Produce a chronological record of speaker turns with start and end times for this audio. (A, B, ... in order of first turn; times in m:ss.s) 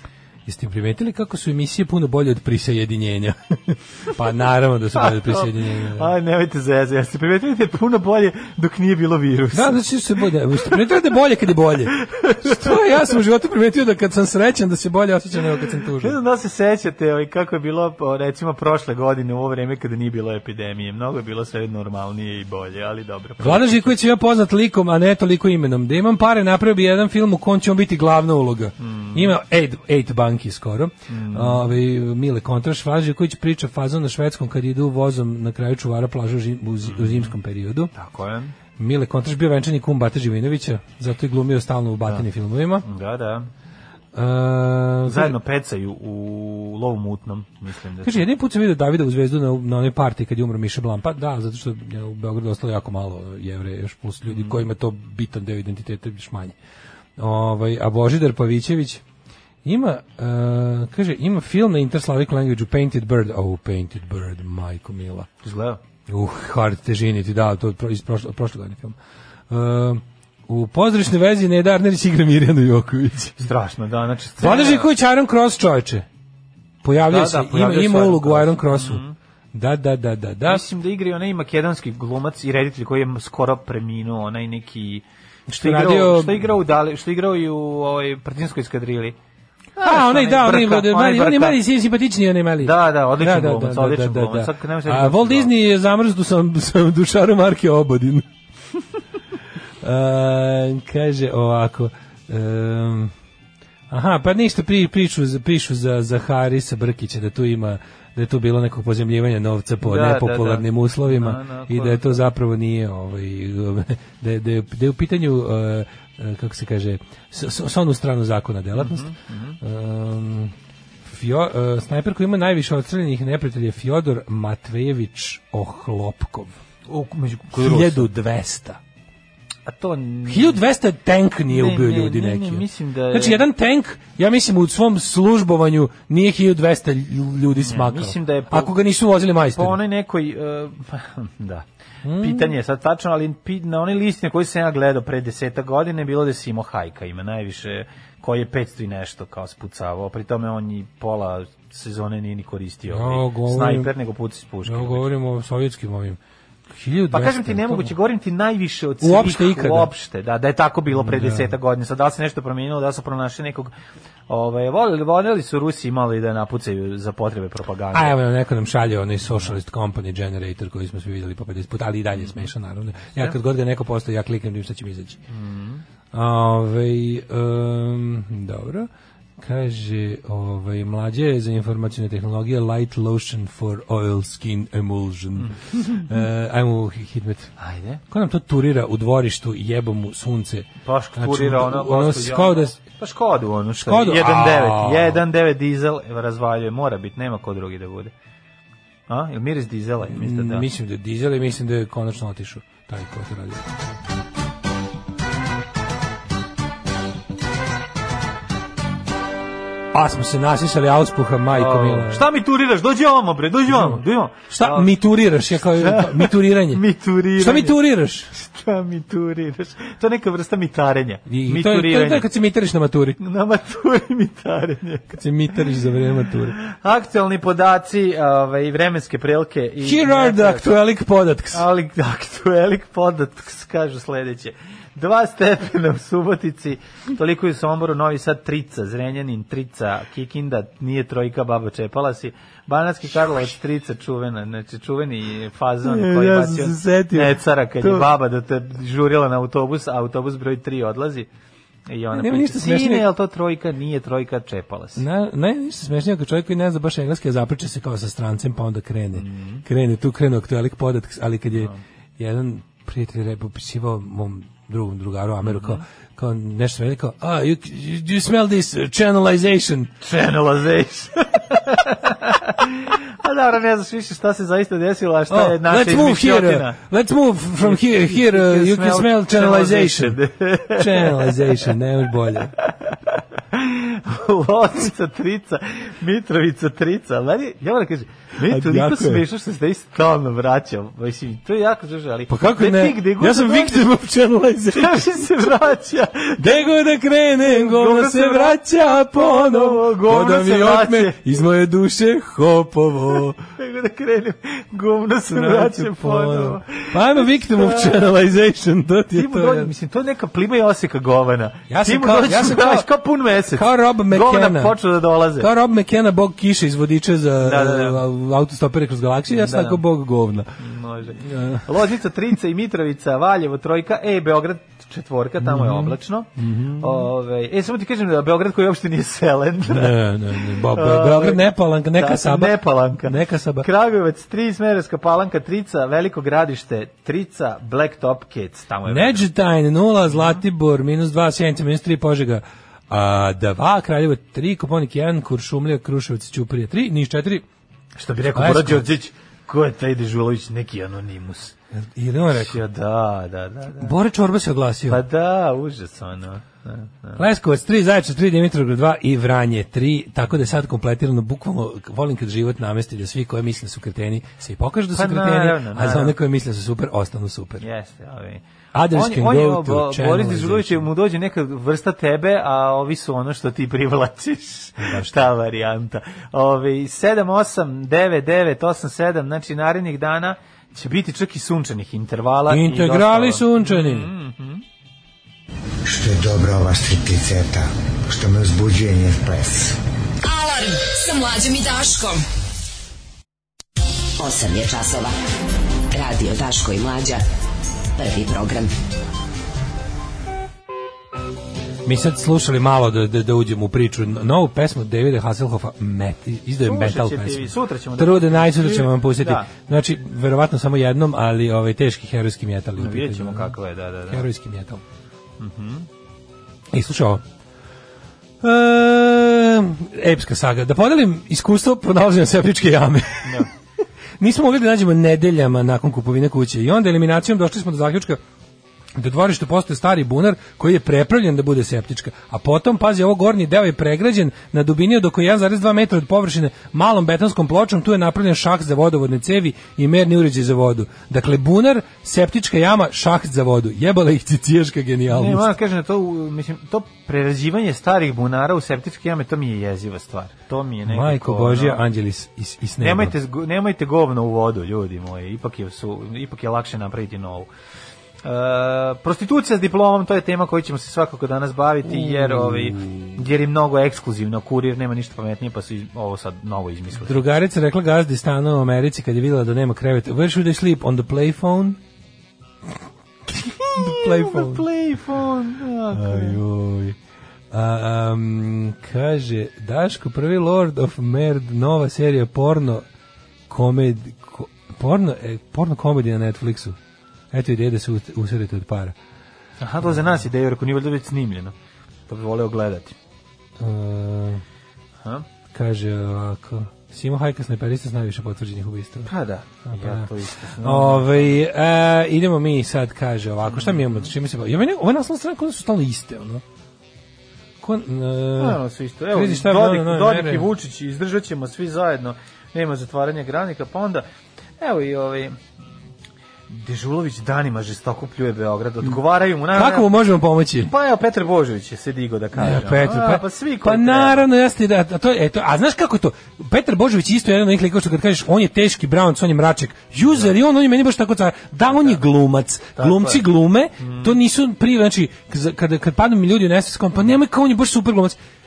0:00.5-0:06.1 A
0:05.0-0:09.8 B
0:09.5-0:16.2 A
0:10.5-0:10.8 B
0:12.1-0:13.1 B
0:16.0-0:24.0 B
0:23.4-0:37.9 A
0:28.8-0:29.4 B
0:31.1-0:31.7 B
0:36.8-0:37.3 B
0:37.9-0:38.6 B
0:38.8-0:42.9 A
0:42.8-0:43.5 B
0:44.1-0:45.4 A
0:45.0-0:48.2 B
0:48.0-0:56.6 A
0:54.3-0:54.6 B
0:57.2-0:59.0 A
0:59.6-1:05.3 A
1:05.4-1:05.8 B
1:06.1-1:09.0 A
1:09.5-1:13.4 A
1:13.4-1:14.9 B
1:14.4-1:16.1 A
1:16.8-1:19.0 A
1:17.1-1:19.2 B
1:19.5-1:20.6 A
1:20.4-1:25.0 B
1:25.5-1:26.5 A
1:25.6-1:29.2 B
1:29.8-1:31.6 B
1:29.8-1:38.3 A
1:32.6-1:35.5 B
1:39.8-1:43.1 A
1:43.9-1:59.1 A
1:49.8-1:52.2 B
1:58.8-1:59.6 B
1:59.6-2:00.5 A
2:01.0-2:06.5 A
2:06.9-2:08.1 B
2:07.5-2:08.8 A
2:09.7-2:10.6 B
2:10.3-2:19.8 A
2:11.5-2:13.4 B
2:17.6-2:18.8 B
2:19.5-2:21.6 B
2:22.0-2:22.5 A
2:22.2-2:35.1 B
2:32.9-2:33.9 A
2:34.6-2:36.2 A
2:36.7-2:37.9 A
2:37.1-2:43.7 B
2:39.0-2:39.9 A
2:40.9-2:41.5 A
2:44.3-2:48.2 B
2:47.9-2:55.2 A
2:49.3-2:49.6 B
2:52.2-2:52.5 B
2:55.3-2:55.8 B
2:56.1-3:07.5 A
3:05.4-3:06.1 B
3:07.6-3:08.0 B
3:08.1-3:12.8 A
3:10.8-3:18.1 B
3:13.8-3:15.2 A
3:19.1-3:20.7 B
3:20.1-3:23.7 A
3:29.9-3:32.2 A
3:31.5-3:34.9 B
3:33.7-3:36.8 A
3:35.6-3:37.8 B
3:37.4-3:38.3 A
3:38.3-3:42.3 B
3:41.3-3:43.2 A
3:43.2-3:45.1 B
3:45.1-3:46.6 A
3:46.6-3:50.8 B
3:49.8-3:51.6 A
3:51.5-4:11.3 B
4:05.8-4:08.1 A
4:11.9-4:15.0 B
4:12.1-4:13.0 A
4:15.0-4:29.9 A
4:19.2-4:19.6 B
4:21.6-4:21.8 B
4:25.4-4:25.8 B
4:30.0-4:36.8 B
4:35.3-4:42.5 A
4:37.6-4:41.7 B
4:42.6-4:53.9 B
4:48.4-4:49.2 A
4:52.3-4:55.3 A
4:54.7-4:56.7 B
4:56.4-5:03.4 A
4:57.4-5:01.3 B
5:03.6-5:08.1 B
5:05.3-5:09.7 A
5:09.1-5:15.5 B
5:11.7-5:12.9 A
5:13.4-5:14.8 A
5:15.4-5:20.6 A
5:17.4-5:18.0 B
5:19.3-5:19.8 B
5:20.6-5:39.3 B
5:21.2-5:21.6 A
5:25.4-5:27.1 A
5:29.7-5:33.7 A
5:38.9-5:47.4 A
5:40.1-5:40.4 B
5:48.0-5:51.5 B
5:48.3-5:48.9 A
5:51.7-5:52.6 A
5:52.3-5:54.0 B
5:53.8-5:55.0 A
5:54.9-5:57.3 B
5:57.2-6:07.6 A
6:04.9-6:06.2 B
6:07.6-6:24.6 B
6:08.7-6:10.9 A
6:14.8-6:15.3 A
6:22.5-6:24.1 A
6:25.8-6:29.8 C
6:30.2-6:32.2 D
6:34.2-6:35.1 E
6:35.9-6:37.2 E
6:38.0-6:38.7 E
6:41.8-6:53.5 A
6:46.6-6:49.5 B
6:52.8-6:54.3 B
6:54.1-6:54.8 A
6:55.4-6:55.9 B
6:56.7-6:57.2 A
6:58.4-7:03.5 A
7:03.2-7:03.5 B
7:04.2-7:08.2 A
7:09.0-7:25.5 A
7:25.1-7:31.8 B
7:30.9-7:33.2 A
7:32.8-7:37.5 B
7:38.2-7:47.2 B
7:41.8-7:43.2 A
7:47.0-7:51.8 A
7:53.3-7:54.7 A
7:53.7-7:56.4 B
7:55.9-7:57.0 A
7:57.5-8:02.8 A
8:03.5-8:06.8 A
8:07.3-8:09.0 A
8:09.6-8:11.5 B
8:12.1-8:13.0 B
8:13.6-8:14.4 A
8:15.5-8:19.1 A
8:19.1-8:21.4 B
8:19.7-8:26.4 A
8:23.5-8:24.1 B
8:27.6-8:30.5 A
8:28.4-8:34.1 B
8:34.6-8:35.4 B
8:36.5-8:39.9 B
8:39.5-8:40.7 A
8:40.6-8:44.3 B
8:42.4-8:58.2 A
8:51.7-8:52.0 B
8:52.8-8:53.2 B
8:53.8-8:54.2 B